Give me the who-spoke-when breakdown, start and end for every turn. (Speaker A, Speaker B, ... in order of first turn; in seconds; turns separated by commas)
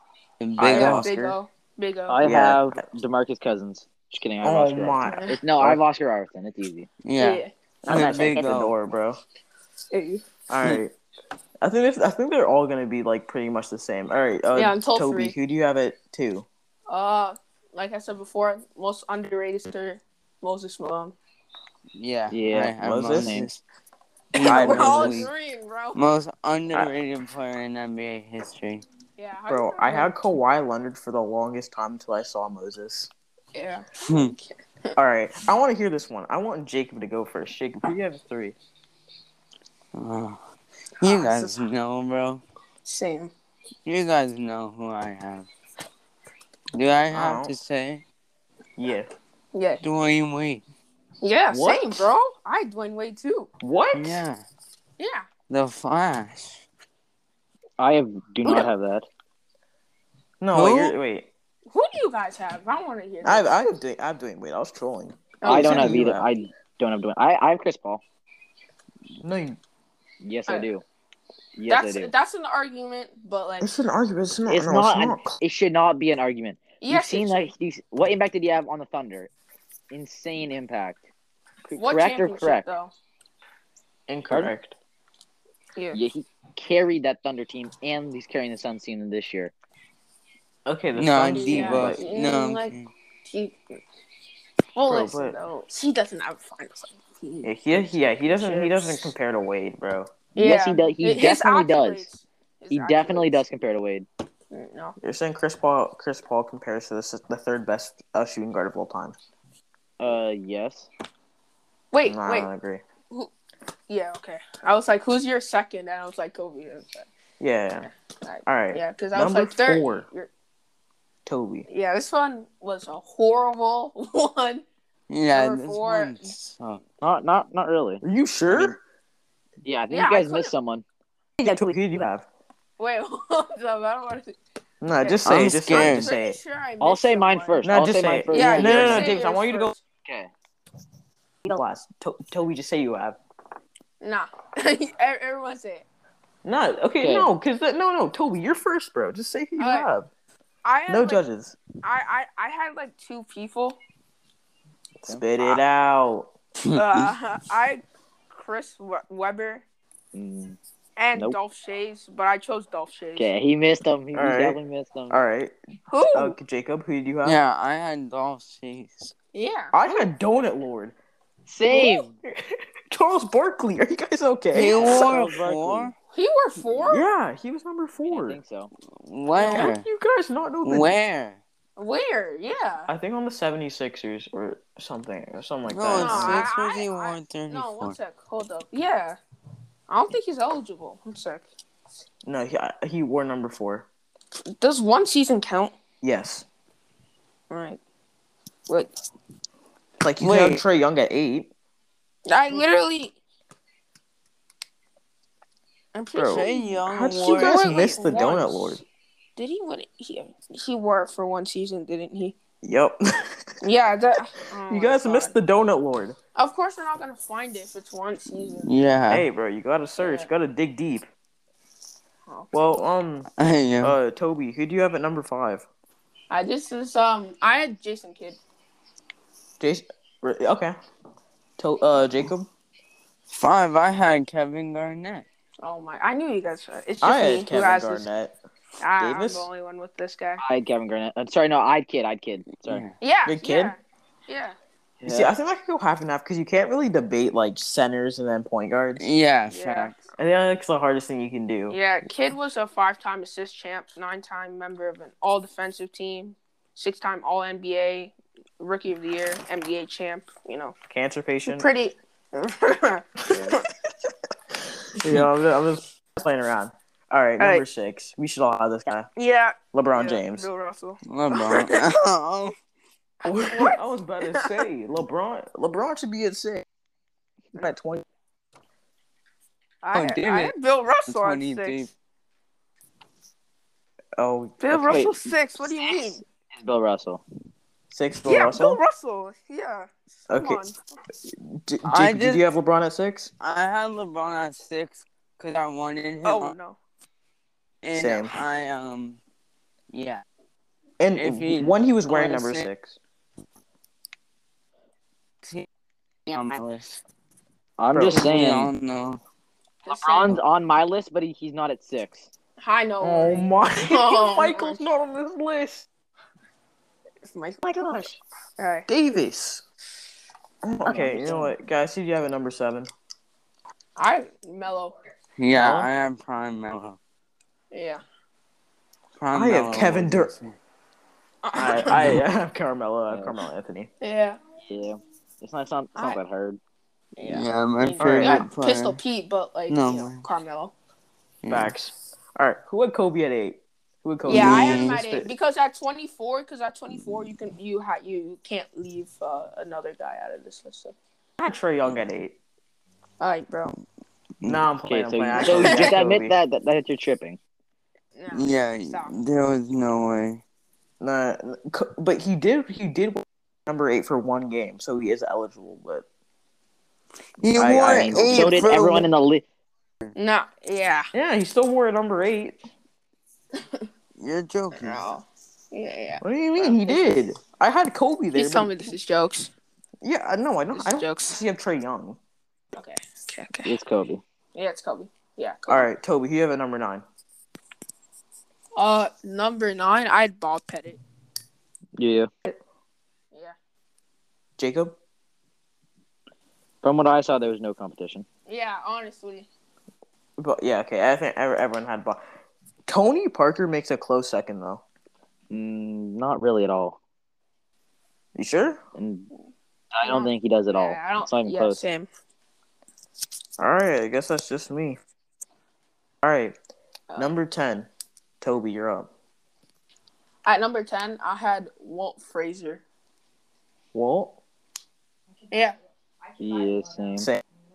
Speaker A: 0.4-1.1, Speaker B: 0.6-1.4, Speaker C: 0.7-2.2, Speaker D: 2.1-6.9, Speaker B: 2.2-2.8, Speaker B: 4.4-5.8, Speaker C: 5.0-5.4, Speaker A: 7.0-8.7, Speaker C: 7.2-7.5, Speaker B: 7.8-9.2, Speaker C: 9.9-10.2, Speaker B: 10.5-10.9, Speaker B: 11.6-16.5, Speaker C: 14.5-15.3, Speaker C: 16.9-21.1, Speaker A: 21.9-23.6, Speaker D: 22.3-23.5, Speaker B: 22.8-23.4, Speaker A: 24.3-25.3, Speaker C: 24.3-26.0, Speaker B: 24.4-25.3, Speaker A: 25.9-28.8, Speaker C: 29.2-30.1, Speaker B: 29.5-33.1, Speaker C: 33.5-34.9, Speaker A: 34.0-34.3, Speaker B: 35.0-38.5, Speaker A: 39.9-40.4, Speaker A: 41.0-42.4, Speaker C: 41.0-41.6, Speaker C: 42.8-43.3, Speaker A: 43.9-45.5, Speaker A: 46.7-48.0, Speaker B: 47.1-47.5, Speaker B: 48.8-49.1, Speaker C: 49.5-49.8, Speaker A: 49.8-50.6, Speaker C: 51.2-53.5, Speaker B: 51.5-52.1, Speaker B: 53.6-54.2, Speaker A: 53.9-54.4, Speaker C: 55.0-55.3, Speaker A: 55.5-56.6, Speaker D: 57.8-59.0, Speaker B: 60.4-61.3, Speaker A: 60.5-61.0, Speaker C: 61.7-63.7, Speaker B: 63.2-66.3, Speaker C: 65.4-66.0, Speaker D: 65.4-68.0, Speaker B: 69.2-69.6, Speaker D: 70.2-70.8, Speaker D: 71.6-72.1, Speaker C: 71.7-73.7, Speaker B: 73.6-75.3, Speaker D: 74.5-79.3, Speaker C: 76.8-77.5, Speaker D: 79.9-81.0, Speaker D: 81.7-82.7, Speaker C: 81.8-82.9, Speaker B: 84.1-84.7, Speaker D: 85.9-89.5, Speaker B: 90.7-92.0, Speaker A: 90.9-92.9, Speaker C: 91.2-92.7, Speaker C: 93.3-93.8, Speaker C: 94.8-99.1, Speaker B: 94.8-95.4, Speaker B: 97.4-100.1, Speaker C: 100.3-103.4, Speaker D: 100.4-102.1, Speaker D: 102.7-104.1, Speaker C: 104.5-105.0, Speaker B: 105.0-109.2, Speaker D: 110.0-110.9, Speaker C: 111.9-112.5, Speaker B: 112.0-112.8, Speaker C: 113.9-117.1, Speaker B: 117.4-117.9, Speaker C: 118.2-120.3, Speaker B: 118.5-120.0, Speaker B: 121.2-121.7, Speaker C: 121.7-124.6, Speaker A: 125.1-126.8, Speaker C: 125.3-126.3, Speaker D: 127.0-128.0, Speaker B: 128.0-128.8, Speaker D: 129.6-130.8, Speaker C: 129.9-130.5, Speaker B: 131.4-132.2, Speaker C: 132.8-134.4, Speaker B: 134.8-136.4, Speaker C: 135.0-137.7, Speaker A: 135.2-136.1, Speaker D: 136.8-139.2, Speaker B: 137.6-139.7, Speaker C: 138.3-139.8, Speaker D: 140.0-140.3, Speaker B: 141.4-143.2, Speaker C: 144.0-145.8, Speaker B: 146.4-150.1, Speaker D: 147.0-147.3, Speaker C: 149.6-149.9, Speaker C: 150.6-151.2, Speaker B: 150.9-151.6, Speaker C: 151.8-153.8, Speaker B: 155.0-156.3, Speaker A: 156.6-157.1, Speaker C: 156.7-159.6, Speaker D: 160.1-160.6, Speaker C: 161.0-163.3, Speaker D: 163.2-165.2, Speaker B: 164.1-164.6, Speaker B: 165.1-165.5, Speaker C: 165.9-166.3, Speaker B: 166.1-167.4, Speaker A: 167.2-169.1, Speaker C: 169.3-170.1, Speaker B: 169.7-170.9, Speaker D: 171.5-172.2, Speaker C: 171.7-172.0, Speaker B: 172.2-175.2, Speaker A: 174.5-175.9, Speaker D: 174.7-175.9, Speaker C: 176.1-177.1, Speaker B: 176.8-178.4, Speaker D: 178.1-178.7, Speaker A: 178.9-179.8, Speaker C: 179.4-179.7, Speaker B: 179.4-180.9, Speaker A: 180.6-181.4, Speaker C: 181.8-182.9, Speaker B: 182.9-186.5, Speaker A: 185.7-187.9, Speaker C: 185.9-189.2, Speaker C: 189.9-191.4, Speaker B: 192.2-193.9, Speaker C: 194.6-195.7, Speaker B: 196.0-196.4, Speaker C: 197.5-197.8, Speaker B: 200.0-201.5, Speaker A: 200.2-200.6, Speaker C: 202.2-203.2, Speaker C: 205.9-208.8, Speaker B: 206.1-208.8, Speaker A: 206.2-208.0, Speaker C: 209.3-212.3, Speaker B: 212.6-213.4, Speaker C: 213.6-215.3, Speaker B: 214.7-216.2, Speaker C: 216.3-218.7, Speaker A: 218.7-219.2, Speaker B: 219.1-221.1, Speaker C: 220.0-220.3, Speaker C: 222.3-222.6, Speaker B: 222.5-223.3, Speaker A: 223.4-223.9, Speaker B: 223.8-225.7, Speaker C: 226.3-228.4, Speaker B: 229.6-230.8, Speaker B: 231.6-232.5, Speaker A: 233.3-235.2, Speaker C: 235.6-238.1, Speaker B: 237.0-238.3, Speaker C: 238.8-240.4, Speaker B: 239.0-239.5, Speaker D: 240.4-242.8, Speaker A: 242.6-242.9, Speaker C: 243.0-244.6, Speaker B: 243.2-243.7, Speaker D: 245.0-245.3, Speaker B: 245.0-249.0, Speaker A: 249.0-250.0, Speaker C: 249.5-250.0, Speaker B: 250.2-251.8, Speaker C: 251.7-260.7, Speaker B: 260.9-261.7, Speaker C: 261.4-263.6, Speaker B: 264.9-269.1, Speaker C: 267.4-267.6, Speaker C: 269.1-271.8, Speaker B: 269.7-270.5, Speaker A: 271.1-272.6, Speaker C: 273.2-273.8, Speaker B: 273.2-276.6, Speaker C: 274.3-274.6, Speaker B: 277.5-278.0, Speaker C: 279.8-281.9, Speaker A: 279.9-280.5, Speaker A: 281.1-281.9, Speaker B: 284.2-285.0, Speaker C: 284.6-286.2, Speaker D: 284.8-285.2, Speaker D: 285.8-287.2, Speaker B: 287.9-288.8, Speaker C: 288.3-290.8, Speaker B: 290.3-290.6, Speaker B: 291.3-293.3, Speaker A: 291.8-292.4, Speaker A: 293.4-296.5, Speaker C: 296.2-296.8, Speaker A: 297.8-299.2, Speaker B: 297.9-298.3, Speaker A: 299.9-300.2, Speaker B: 301.0-302.9, Speaker A: 301.1-302.7, Speaker A: 306.3-307.0, Speaker D: 307.8-308.7, Speaker A: 307.9-309.2, Speaker C: 309.8-310.4, Speaker D: 309.9-312.3, Speaker C: 312.6-314.8, Speaker B: 313.0-315.9, Speaker C: 317.2-318.9, Speaker B: 317.6-318.1, Speaker B: 318.9-319.6, Speaker B: 320.6-322.9, Speaker D: 320.8-321.5, Speaker C: 323.9-324.9, Speaker A: 325.4-327.0, Speaker B: 325.5-325.9, Speaker C: 327.7-328.0, Speaker A: 329.2-330.6, Speaker B: 329.3-330.3, Speaker C: 331.4-332.2, Speaker B: 331.6-333.9, Speaker D: 333.1-333.4, Speaker C: 334.0-334.4, Speaker D: 334.6-336.6, Speaker C: 337.2-340.7, Speaker A: 337.2-339.0, Speaker B: 338.0-338.4, Speaker A: 339.7-340.3, Speaker A: 341.4-341.7, Speaker B: 341.5-345.3, Speaker C: 344.2-350.9, Speaker A: 344.2-345.0, Speaker B: 351.4-352.4, Speaker C: 353.2-353.7, Speaker B: 354.4-356.3, Speaker D: 354.9-357.4, Speaker C: 355.4-356.0, Speaker C: 358.1-359.1, Speaker A: 358.3-360.4, Speaker B: 361.0-366.0, Speaker A: 367.4-369.1, Speaker B: 367.6-368.8, Speaker D: 367.8-369.4, Speaker C: 370.1-371.1, Speaker B: 371.1-372.6, Speaker C: 373.5-373.9, Speaker A: 374.2-375.1, Speaker C: 374.7-377.1, Speaker B: 376.2-378.7, Speaker C: 378.3-379.5, Speaker B: 380.0-382.2, Speaker C: 380.7-381.4, Speaker C: 382.7-383.7, Speaker D: 383.6-384.2, Speaker C: 384.5-385.9, Speaker B: 385.7-387.0, Speaker C: 388.8-391.0, Speaker D: 392.0-392.3, Speaker B: 394.6-394.9, Speaker D: 396.8-398.2, Speaker C: 398.5-399.5, Speaker B: 400.4-402.2, Speaker B: 402.9-404.8, Speaker D: 405.5-407.0, Speaker B: 408.3-408.8, Speaker D: 408.9-409.3, Speaker D: 409.9-411.8, Speaker C: 410.0-412.1, Speaker B: 413.6-415.0, Speaker B: 416.2-416.5, Speaker B: 417.2-417.9, Speaker B: 418.4-419.1, Speaker C: 420.4-422.8, Speaker B: 423.9-424.4, Speaker C: 425.5-425.8, Speaker D: 426.4-427.3, Speaker B: 427.2-427.4